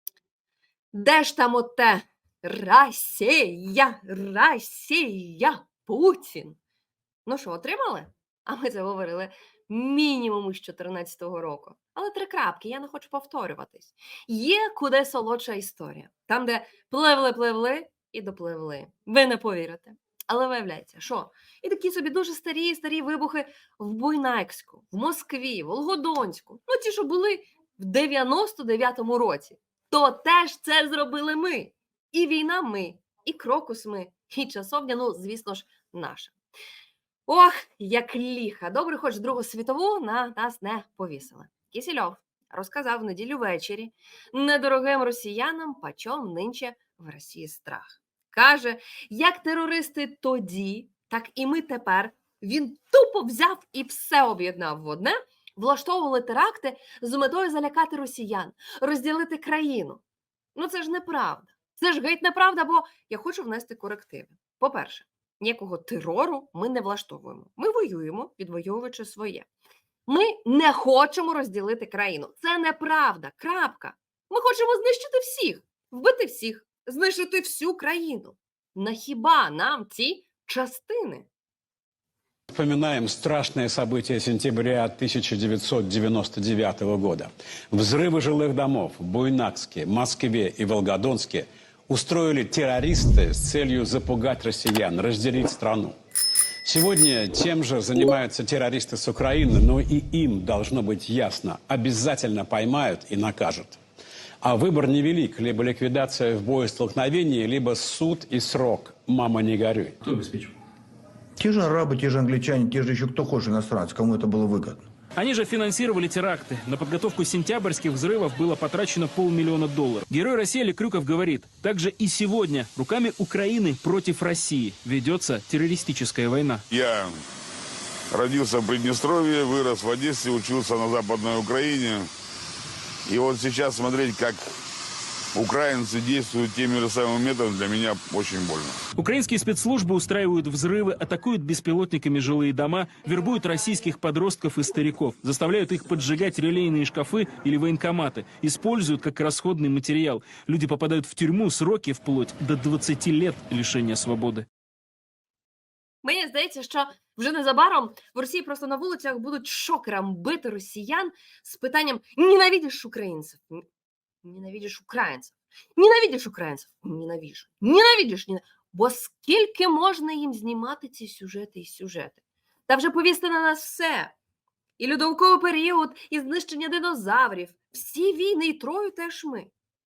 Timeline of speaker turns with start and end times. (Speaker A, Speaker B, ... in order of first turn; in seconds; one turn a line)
Speaker A: 0.9-6.6
Speaker A: 7.2-36.3
Speaker A: 37.3-60.0
Speaker A: 60.6-69.5
Speaker A: 70.1-81.2
Speaker B: 82.5-96.0
Speaker B: 96.6-103.8
Speaker B: 104.4-110.0
Speaker C: 111.4-114.8
Speaker D: 115.2-126.6
Speaker E: 126.7-127.1
Speaker E: 128.1-132.1
Speaker E: 133.1-134.4
Speaker E: 135.3-138.8
Speaker D: 138.9-154.4
Speaker A: 156.0-163.6
Speaker A: 164.2-174.1
Speaker A: 174.8-179.5